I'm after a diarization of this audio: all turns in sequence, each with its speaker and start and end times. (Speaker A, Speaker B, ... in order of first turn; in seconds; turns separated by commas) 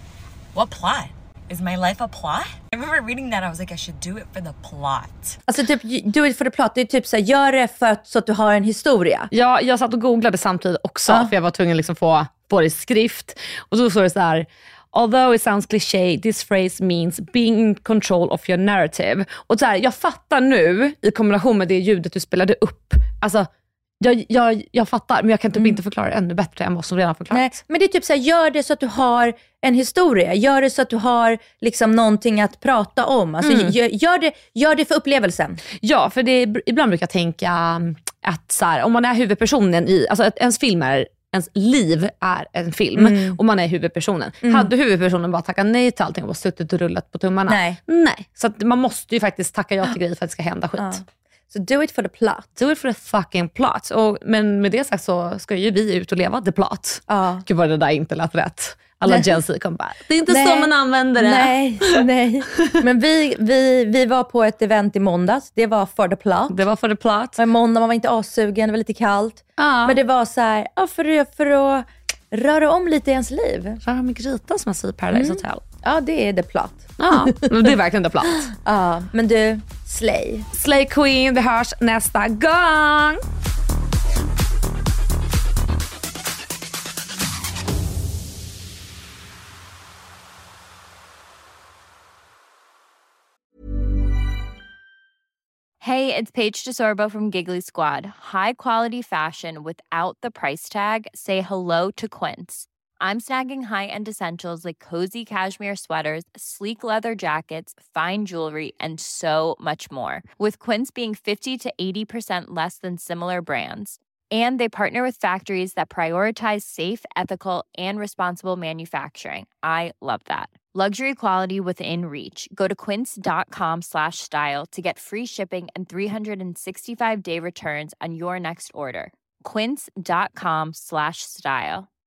Speaker A: 0.5-5.4, Speaker B: 5.5-9.3, Speaker C: 9.3-23.5, Speaker C: 24.0-27.6, Speaker B: 27.3-35.6, Speaker C: 33.4-33.8, Speaker C: 35.8-51.0, Speaker B: 42.9-43.4, Speaker B: 44.4-44.7, Speaker B: 47.5-47.8, Speaker B: 50.8-52.5, Speaker C: 52.6-61.9, Speaker B: 57.1-57.4, Speaker B: 60.3-66.6, Speaker C: 66.5-67.4, Speaker B: 67.4-73.8, Speaker C: 69.6-70.0, Speaker C: 73.8-75.6, Speaker B: 75.1-77.8, Speaker C: 77.0-78.5, Speaker B: 78.3-80.5, Speaker C: 80.5-83.2, Speaker D: 95.8-131.9